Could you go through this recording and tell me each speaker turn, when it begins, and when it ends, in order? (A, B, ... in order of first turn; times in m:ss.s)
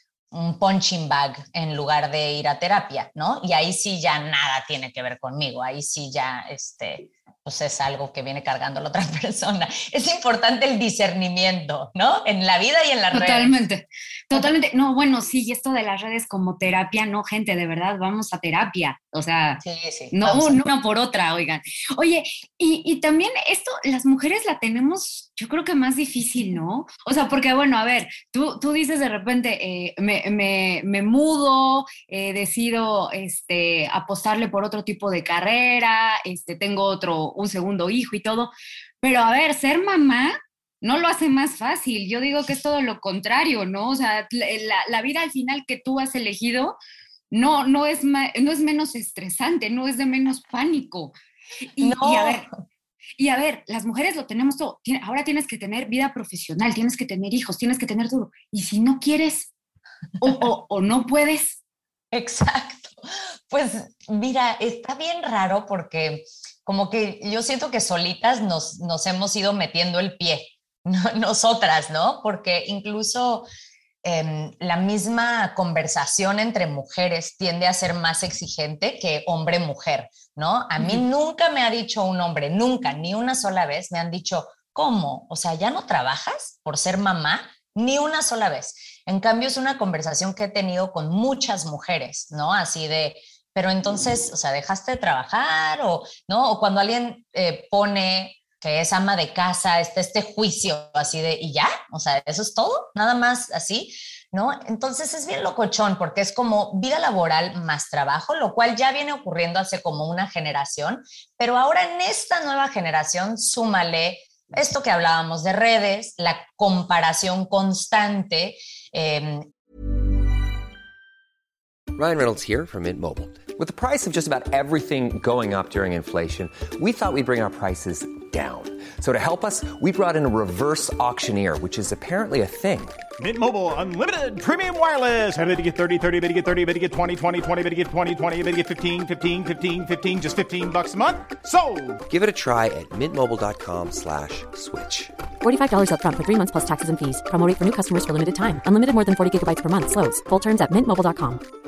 0:00.3-0:13.5 A
0:13.1-0:46.8 B
0:19.6-0:20.7 A
0:47.3-0:51.1 B
0:51.7-0:52.5 B
0:51.8-0:52.5 A
0:53.2-0:59.5 B
1:00.2-1:01.6 B
1:02.1-1:13.5 A
1:14.0-1:59.5 A
1:20.8-1:21.0 B
2:02.0-2:13.0 C
2:13.2-2:22.0 D
2:22.1-2:25.2 C
2:25.4-2:31.4 E